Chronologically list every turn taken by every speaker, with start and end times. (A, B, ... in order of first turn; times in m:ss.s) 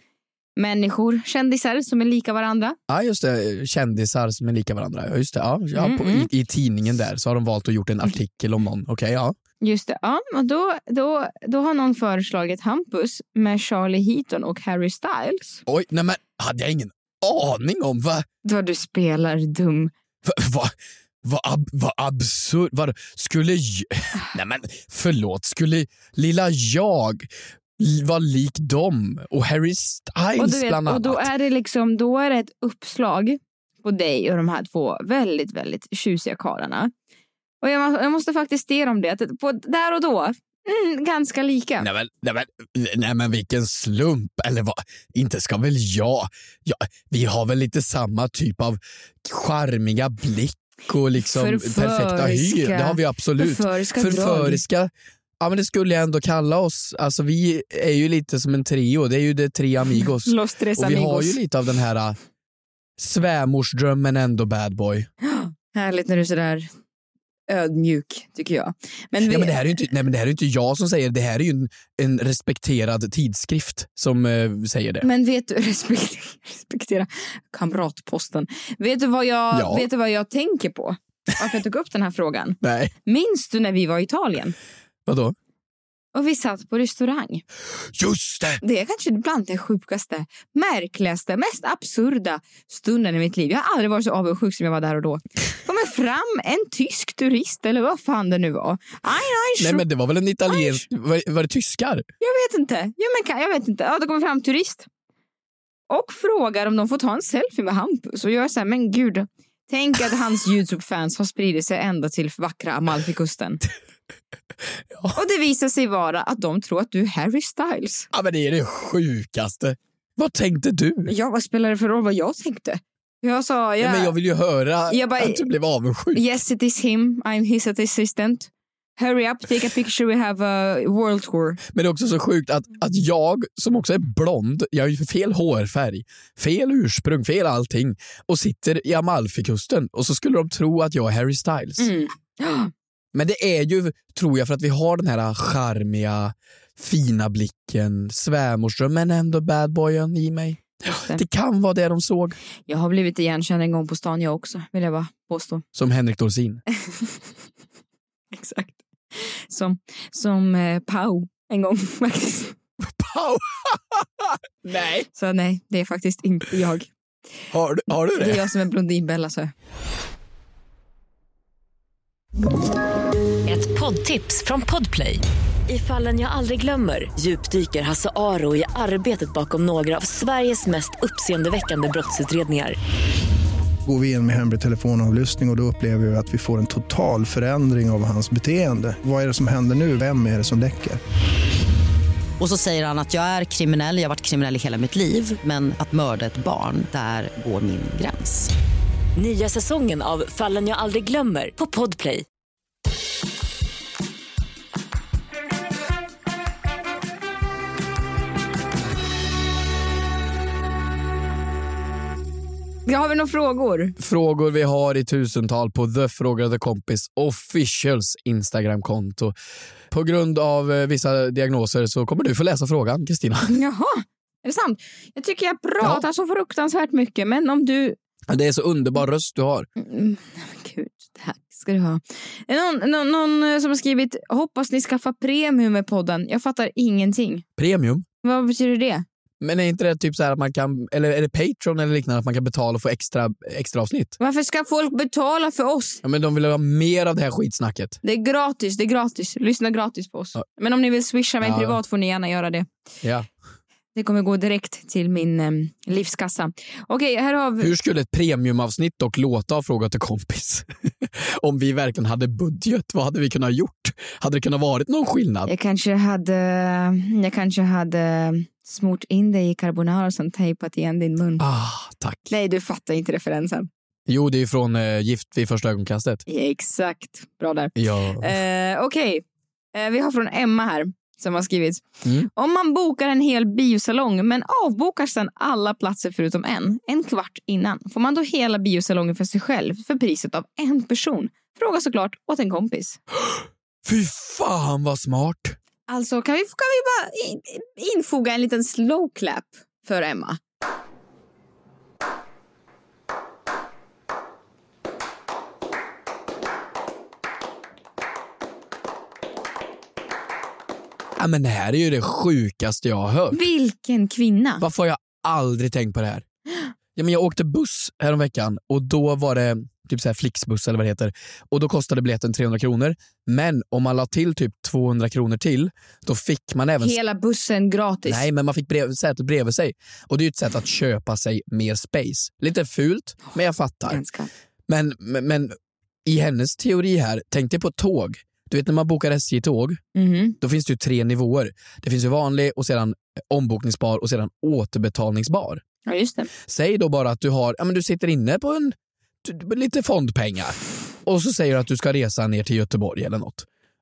0:00.6-0:02.8 A
0:02.9-0:09.4 B
0:05.7-0:06.3 A
0:09.6-0:15.6 A
0:15.6-0:18.2 B
0:18.4-0:19.9 A
0:20.2-0:27.3 B
0:27.8-0:31.3 B
0:30.4-0:36.9 A
0:37.6-0:41.9 A
0:41.8-1:02.2 B
0:51.2-0:54.6 A
1:00.2-1:01.4 A
1:03.0-1:05.1 B
1:05.2-1:06.7 A
1:07.5-1:09.6 A
1:09.2-1:15.0 B
1:15.0-1:24.6 A
1:19.5-1:19.9 B
1:22.6-1:22.9 B
1:25.0-1:25.3 B
1:26.1-1:27.4 A
1:27.9-1:28.6 B
1:28.6-1:39.8 A
1:39.6-1:42.0 B
1:40.5-1:40.8 A
1:42.2-1:44.9 A
1:45.9-1:53.6 A
1:54.9-1:55.2 B
1:55.1-1:58.1 A
1:58.1-2:01.1 B
2:01.1-2:04.1 A
2:03.8-2:06.4 B
2:04.9-2:05.4 A
2:06.1-2:11.6 A
2:11.7-2:21.9 B
2:21.8-2:22.7 A
2:23.1-2:32.4 B
2:30.9-2:31.2 A
2:32.7-2:35.6 A
2:35.7-2:36.6 B
2:36.8-2:37.2 A
2:38.3-2:42.5 A
2:42.8-2:45.1 B
2:45.1-2:46.9 A
2:47.5-2:48.4 B
2:48.1-2:49.5 A
2:53.4-3:02.8 C
3:03.8-3:11.0 D
3:12.4-3:18.5 E
3:19.2-3:22.2 C
3:32.8-3:33.9 A
3:34.0-3:39.3 B
3:39.9-3:43.5 B
3:43.5-3:48.0 A
3:48.3-3:49.7 B
3:49.8-3:57.4 A
3:57.6-3:58.0 B
3:58.2-3:59.0 A
3:59.4-4:04.1 B
4:04.2-4:06.0 A
4:06.0-4:08.0 B
4:08.0-4:12.7 A
4:11.4-4:11.8 B
4:13.0-4:13.3 B
4:13.9-4:17.7 A
4:17.6-4:25.5 B
4:25.4-4:31.4 A
4:31.4-4:32.3 B
4:32.3-4:33.7 A
4:34.1-4:36.2 B
4:36.3-4:39.2 A
4:37.8-4:38.4 B
4:39.7-4:53.0 A
4:42.0-4:42.3 B
4:53.1-4:55.6 B
4:55.9-5:00.4 A
5:11.2-5:13.4 B
5:13.3-5:14.6 A
5:14.6-5:16.2 B
5:17.0-5:27.0 B
5:26.8-5:28.2 A
5:28.0-5:34.0 B
5:33.9-5:34.3 A
5:34.7-5:39.8 B
5:39.9-5:40.4 A
5:40.4-5:45.6 B
5:45.8-5:46.3 A
5:46.4-5:53.4 B